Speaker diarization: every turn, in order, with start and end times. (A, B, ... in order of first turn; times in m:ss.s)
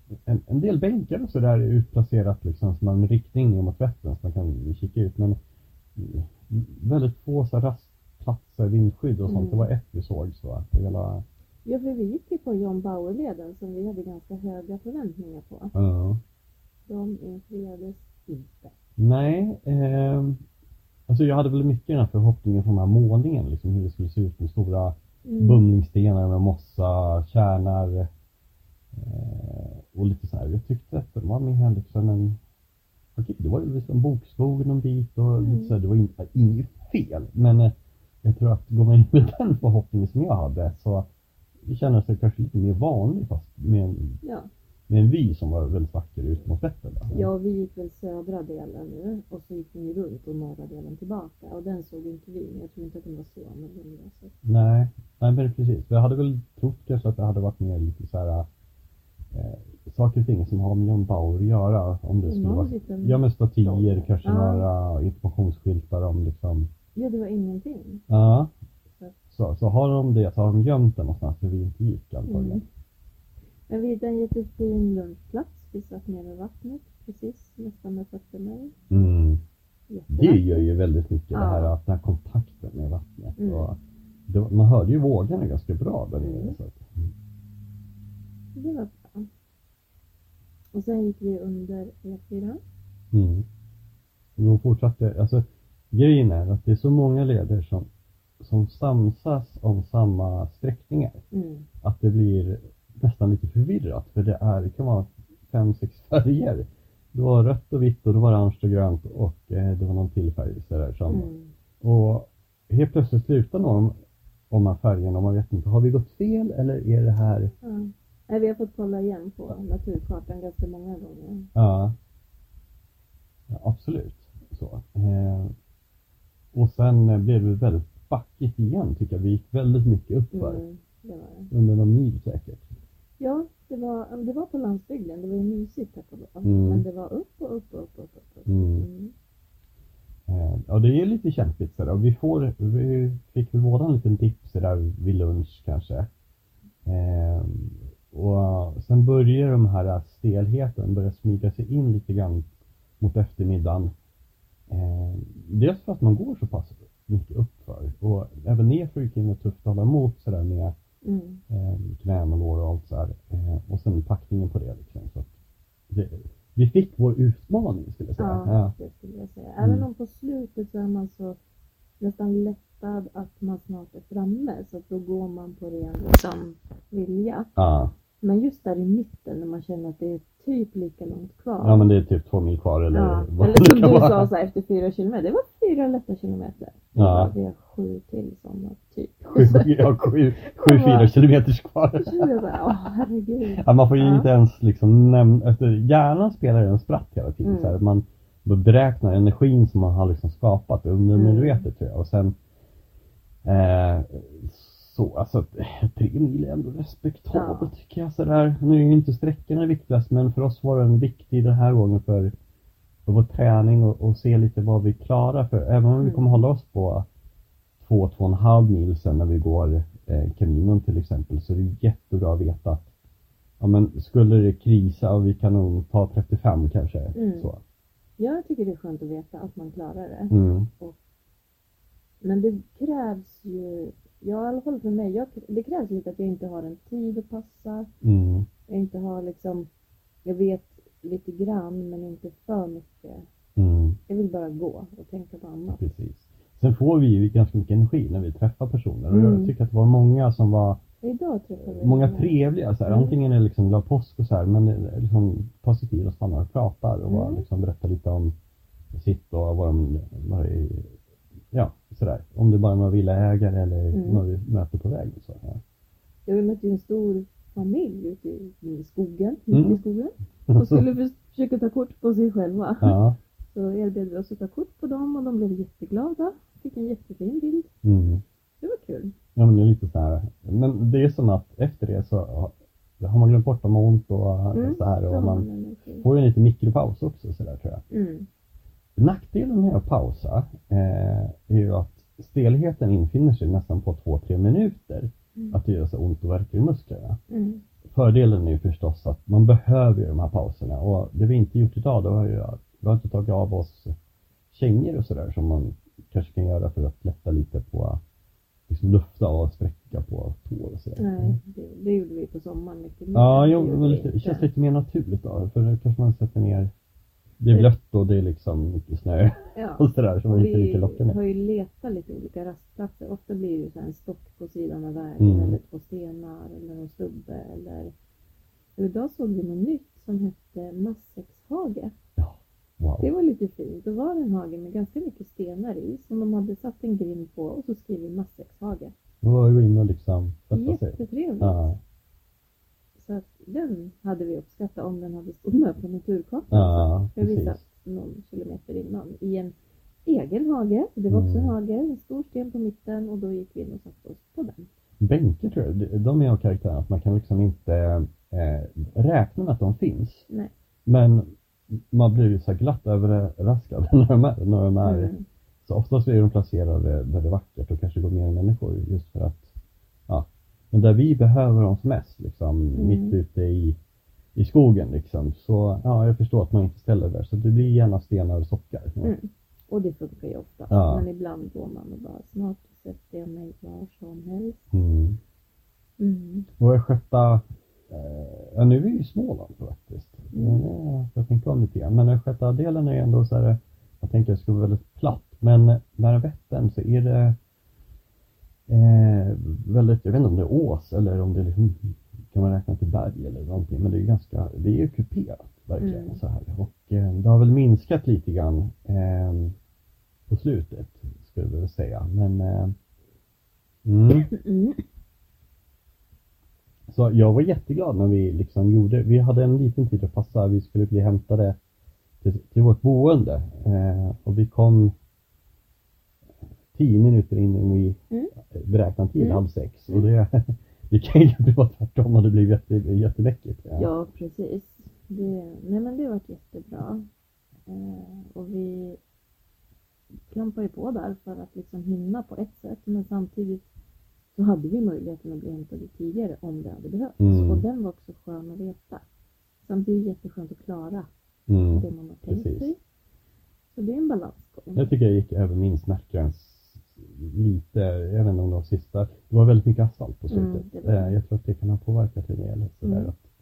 0:00.2-0:05.4 A
0:05.9-0:11.2 A
0:09.2-0:09.7 B
0:11.6-0:15.7 B
0:15.7-0:16.2 A
0:16.9-0:18.7 B
0:19.0-0:20.4 A
0:21.1-0:28.1 A
0:25.2-0:25.6 B
0:28.9-0:32.4 A
0:33.2-0:41.1 A
0:35.4-0:35.8 B
0:41.6-0:44.2 A
0:44.2-0:44.5 B
0:44.9-0:47.3 A
0:47.1-0:54.3 B
0:54.4-0:58.5 A
0:59.3-1:06.7 A
1:02.2-1:04.7 B
1:06.9-1:08.0 B
1:08.1-1:08.5 A
1:09.3-1:12.6 A
1:12.3-1:12.6 B
1:13.7-1:18.7 B
1:18.9-1:19.4 A
1:19.9-1:20.7 B
1:20.1-1:23.8 A
1:21.3-1:21.7 B
1:23.4-1:23.7 B
1:24.3-1:26.9 A
1:26.2-1:26.6 B
1:28.5-1:29.3 B
1:30.7-1:32.6 B
1:33.1-1:33.4 A
1:34.4-1:37.9 A
1:38.4-1:41.2 A
1:41.3-1:41.6 B
1:41.8-1:51.3 A
1:51.1-1:51.5 B
1:51.8-1:53.9 A
1:54.5-1:57.5 A
1:57.6-2:01.5 B
2:01.5-2:01.9 A
2:03.5-2:05.5 A
2:06.5-2:10.6 A
2:10.3-2:11.5 B
2:11.5-2:12.6 A
2:13.2-2:19.1 B
2:16.4-2:16.8 A
2:18.5-2:18.8 A
2:20.3-2:26.1 A
2:26.8-2:32.5 A
2:33.0-2:33.9 A
2:34.7-2:40.7 A
2:41.0-2:41.4 B
2:41.5-2:45.3 A
2:45.9-2:48.7 A
2:48.2-2:51.4 B
2:49.6-2:49.8 A
2:52.0-2:57.5 B
2:57.6-2:57.9 A
2:58.2-3:01.9 B
3:01.6-3:04.3 A
3:02.9-3:11.1 B
3:06.9-3:07.3 A
3:09.3-3:12.7 A
3:12.0-3:14.3 B
3:13.6-3:22.3 A
3:17.4-3:17.8 B
3:21.1-3:21.6 B
3:23.4-3:32.3 A
3:27.3-3:27.7 B
3:33.0-3:37.0 A
3:36.0-3:36.4 B
3:37.8-3:42.8 A
3:43.6-3:47.6 A
3:47.1-3:47.5 B
3:48.2-3:51.0 B
3:50.3-3:50.7 A
3:52.2-3:57.9 B
3:58.0-3:58.5 A
3:58.7-3:59.7 B
4:00.2-4:03.3 B
4:03.6-4:04.0 A
4:04.1-4:05.8 B
4:05.8-4:10.8 A
4:09.1-4:09.5 B
4:11.0-4:13.2 B
4:11.6-4:18.3 A
4:17.1-4:17.4 B
4:18.9-4:20.9 A
4:21.5-4:25.6 A
4:23.9-4:24.2 B
4:26.2-4:33.0 B
4:29.5-4:29.8 A
4:30.5-4:30.9 A
4:32.8-4:33.2 A
4:33.5-4:37.7 B
4:37.8-4:38.2 A
4:38.6-4:39.1 B
4:39.4-4:45.5 A
4:44.5-4:46.1 B
4:46.0-4:47.8 A
4:47.9-4:48.3 B
4:49.0-4:57.2 A
4:57.3-4:57.6 B
4:57.9-5:04.0 A
5:04.5-5:08.0 A
5:08.7-5:11.4 A
5:11.0-5:14.5 B
5:13.1-5:16.7 A
5:17.4-5:21.2 A
5:19.5-5:27.9 B
5:25.2-5:25.6 A
5:28.8-5:31.9 B
5:32.2-5:33.1 A
5:33.0-5:38.9 B
5:39.2-5:41.8 A
5:40.5-5:41.7 B
5:43.0-5:49.5 B
5:46.5-5:47.6 A
5:50.0-5:54.7 B
5:51.1-5:51.5 A
5:55.0-6:00.2 A
6:00.8-6:05.1 A
6:04.8-6:05.2 B
6:05.6-6:09.5 A
6:10.1-6:13.8 A
6:12.7-6:13.2 B
6:14.3-6:19.1 A
6:19.0-6:24.6 B
6:20.7-6:21.0 A
6:24.7-6:25.2 A
6:26.0-6:26.5 B
6:26.6-6:37.4 A
6:30.3-6:30.6 B
6:38.7-6:49.6 A
6:45.8-6:46.2 B
6:50.3-6:52.7 A
6:53.8-6:54.3 A
6:54.3-6:54.8 B
6:56.9-7:01.6 A
7:02.2-7:04.9 A
7:06.7-7:13.9 A
7:09.2-7:10.0 B
7:13.8-7:17.0 B
7:17.7-7:19.0 B
7:20.3-7:23.6 B
7:24.3-7:29.0 B
7:27.2-7:27.6 A
7:29.6-7:31.1 B
7:31.5-7:32.7 A
7:31.7-7:32.8 B
7:33.7-7:34.9 B
7:34.8-7:43.2 A
7:40.3-7:41.2 B
7:42.8-7:43.1 B